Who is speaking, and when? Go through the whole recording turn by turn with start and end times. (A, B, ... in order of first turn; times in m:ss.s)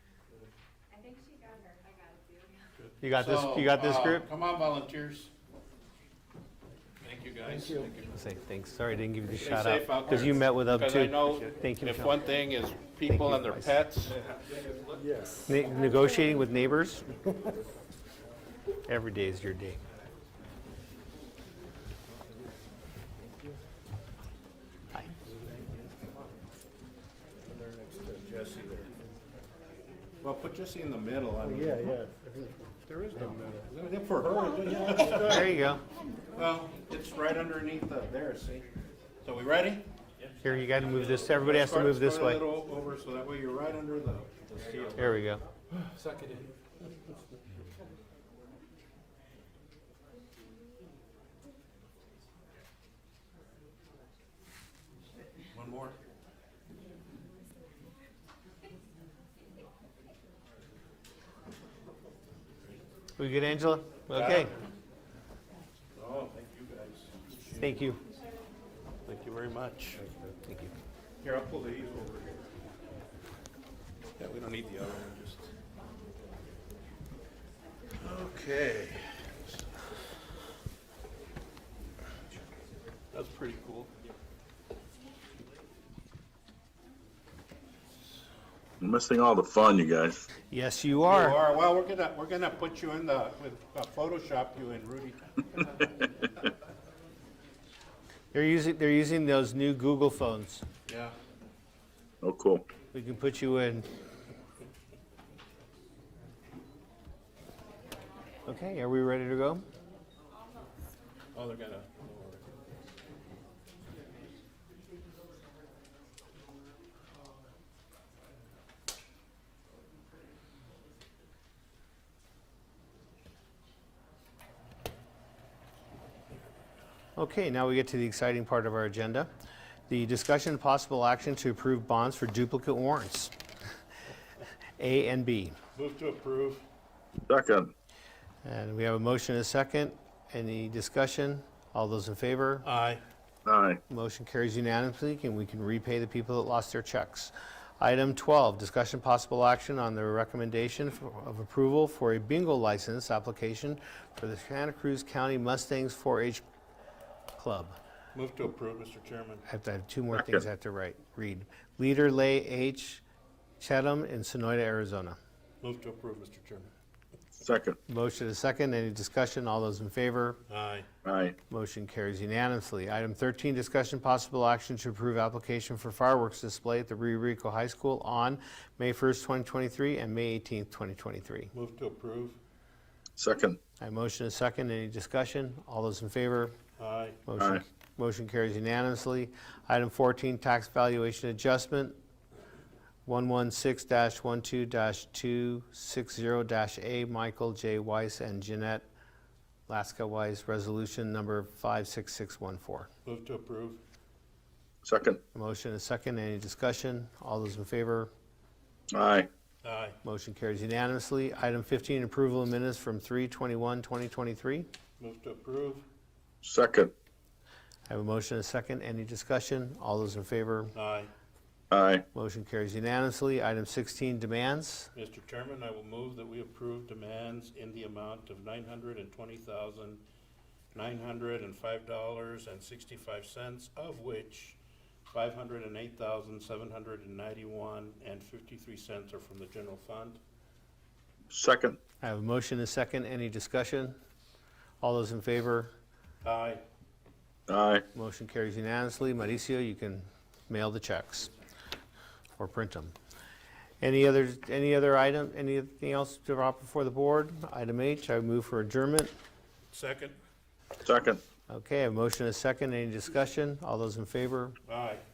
0:00.9-0:02.6 A
0:02.8-0:05.3 B
0:03.0-0:04.3 C
0:07.0-0:08.1 B
0:08.1-0:12.2 C
0:09.3-0:14.6 B
0:13.0-0:13.8 C
0:15.1-0:15.4 A
0:15.4-0:17.0 C
0:18.8-0:19.8 C
0:27.6-0:28.9 B
0:30.2-0:32.1 B
0:31.8-0:32.5 A
0:32.8-0:35.5 B
0:34.9-0:35.2 A
0:35.1-0:35.8 C
0:36.3-0:38.7 B
0:39.2-0:39.9 B
0:40.4-0:42.4 C
0:40.8-0:45.2 B
0:45.0-0:45.4 C
0:45.7-0:46.5 B
0:55.5-0:56.0 B
1:03.2-1:04.5 C
1:04.1-1:04.6 B
1:05.9-1:07.9 B
1:07.6-1:08.0 C
1:09.0-1:10.0 B
1:10.4-1:10.7 C
1:11.2-1:12.5 B
1:14.2-1:15.5 B
1:18.0-1:19.6 B
1:23.1-1:23.9 B
1:28.8-1:30.2 D
1:30.5-1:31.4 C
1:31.0-1:36.1 B
1:38.3-1:40.6 C
1:40.9-1:41.1 B
1:42.2-1:42.6 D
1:42.9-1:43.9 C
1:48.4-1:49.6 C
1:51.3-1:52.4 B
2:07.2-2:09.3 C
2:09.9-2:13.3 C
2:14.8-2:15.6 C
2:15.8-2:16.6 B
2:17.3-2:17.7 D
2:18.4-2:22.7 C
2:22.6-2:23.0 B
2:23.4-2:23.8 D
2:23.9-2:36.4 C
2:37.4-2:37.8 C
2:38.1-2:39.4 B
2:39.5-2:43.0 C
2:40.1-2:40.4 D
2:43.6-2:45.2 C
2:45.6-2:46.7 B
2:47.4-2:47.8 D
2:47.9-2:50.4 C
2:50.5-2:50.9 B
2:51.0-2:51.4 D
2:51.5-3:01.5 C
3:01.5-3:02.4 B
3:03.2-3:03.6 D
3:03.8-3:06.5 C
3:06.8-3:07.2 B
3:07.2-3:12.0 C
3:13.0-3:18.8 C
3:19.7-3:22.9 C
3:23.0-3:23.8 B
3:24.8-3:25.2 D
3:25.3-3:28.1 C
3:28.9-3:29.3 D
3:29.6-3:30.0 B
3:30.0-3:34.7 C
3:35.0-3:35.8 B
3:36.4-3:36.9 D
3:37.9-3:40.7 C
3:40.7-3:41.1 B
3:41.7-3:42.0 D
3:42.1-3:44.9 C
3:44.9-3:50.0 B
3:50.7-3:54.6 B
3:55.1-4:00.2 B
4:01.3-4:01.8 D
4:02.0-4:04.0 C
4:04.8-4:05.7 C
4:06.2-4:06.6 B
4:07.5-4:07.8 D
4:07.9-4:11.3 C
4:12.4-4:12.9 C
4:13.8-4:19.1 C
4:19.7-4:20.2 B
4:20.8-4:21.2 D
4:21.5-4:24.6 C
4:24.7-4:25.0 B